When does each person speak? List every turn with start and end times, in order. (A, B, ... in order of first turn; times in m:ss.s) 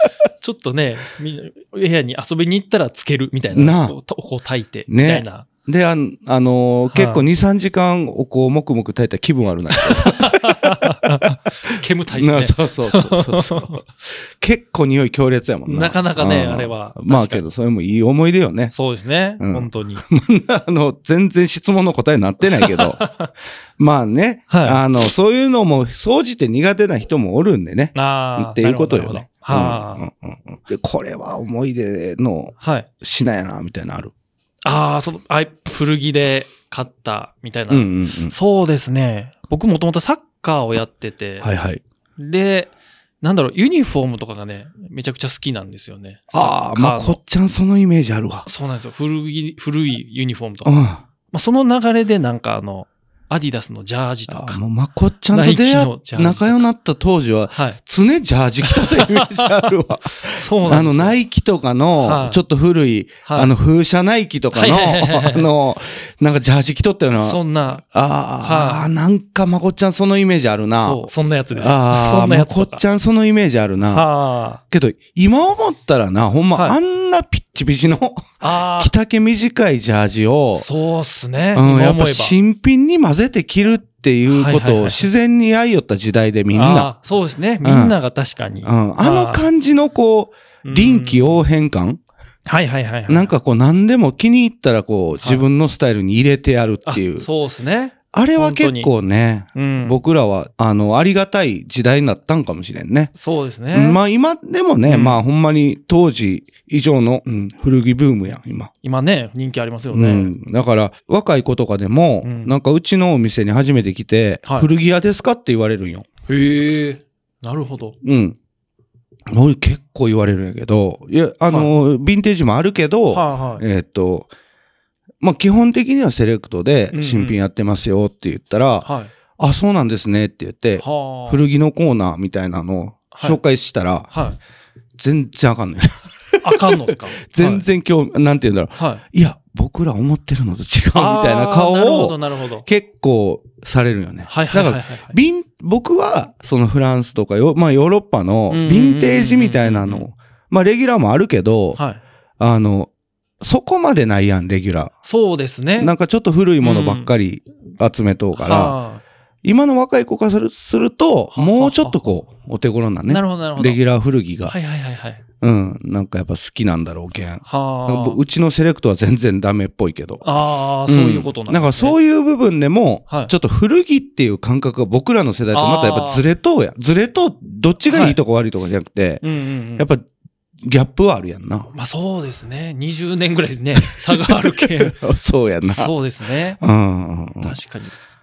0:00.4-0:05.5 A
0:03.5-0:04.0 B
0:04.9-0:18.7 B
0:06.9-0:07.2 A
0:09.8-0:13.8 A
0:15.7-0:17.5 A
0:18.7-0:20.0 A
0:19.4-0:23.0 B
0:22.5-0:23.3 A
0:23.8-0:34.1 B
0:24.5-0:24.8 A
0:28.0-0:30.0 A
0:32.6-0:32.9 A
0:34.6-0:41.5 A
0:37.7-0:38.3 B
0:41.4-0:41.8 B
0:42.2-0:47.2 A
0:46.3-0:48.5 B
0:48.5-0:50.8 A
0:50.6-0:51.0 B
0:51.3-0:54.6 A
0:54.3-1:14.1 B
0:55.3-0:56.6 A
0:57.5-0:57.8 A
0:58.6-1:01.2 A
1:02.0-1:02.4 A
1:03.3-1:03.5 A
1:04.5-1:05.5 A
1:07.2-1:07.8 A
1:08.4-1:08.9 A
1:10.8-1:12.8 A
1:13.9-1:14.6 A
1:14.7-1:20.7 B
1:18.4-1:18.9 A
1:20.6-1:22.4 A
1:21.5-1:26.9 B
1:24.3-1:25.1 A
1:26.5-1:29.5 A
1:27.6-1:28.0 B
1:28.6-1:32.0 B
1:30.6-1:31.4 A
1:32.5-1:33.3 A
1:33.1-1:37.3 B
1:35.2-1:35.4 A
1:36.9-1:38.9 A
1:38.1-1:43.1 B
1:39.6-1:40.0 A
1:43.2-1:44.0 A
1:43.7-1:48.7 B
1:44.8-1:45.2 A
1:48.8-1:50.3 A
1:49.9-1:56.1 B
1:52.2-1:52.6 A
1:54.5-1:54.7 A
1:56.3-1:58.0 A
1:58.0-1:58.4 B
1:59.3-2:04.3 B
2:03.1-2:03.6 A
2:05.2-2:08.9 B
2:06.9-2:07.4 A
2:08.8-2:09.1 A
2:09.4-2:14.1 B
2:10.8-2:11.4 A
2:13.1-2:13.4 A
2:14.1-2:14.4 A
2:15.0-2:31.8 B
2:16.4-2:17.7 A
2:18.8-2:19.0 A
2:20.9-2:22.7 A
2:24.3-2:25.2 A
2:28.5-2:30.1 A
2:31.8-2:32.0 A
2:32.4-2:32.9 B
2:33.4-2:35.0 B
2:35.0-2:35.9 A
2:35.8-2:38.8 B
2:36.6-2:37.1 A
2:38.4-2:39.0 A
2:39.4-2:44.6 B
2:41.3-2:42.2 A
2:43.1-2:43.8 A
2:44.5-2:45.2 A
2:45.4-2:50.3 B
2:47.5-2:48.2 A
2:50.2-2:52.0 A
2:50.9-2:59.2 B
2:55.5-2:56.2 A
2:57.9-2:58.2 A
2:59.2-2:59.9 A
2:59.8-3:00.1 B
3:00.6-3:01.7 B
3:01.7-3:05.0 A
3:03.8-3:05.9 B
3:05.6-3:06.6 A
3:06.6-3:07.6 B
3:07.4-3:07.9 A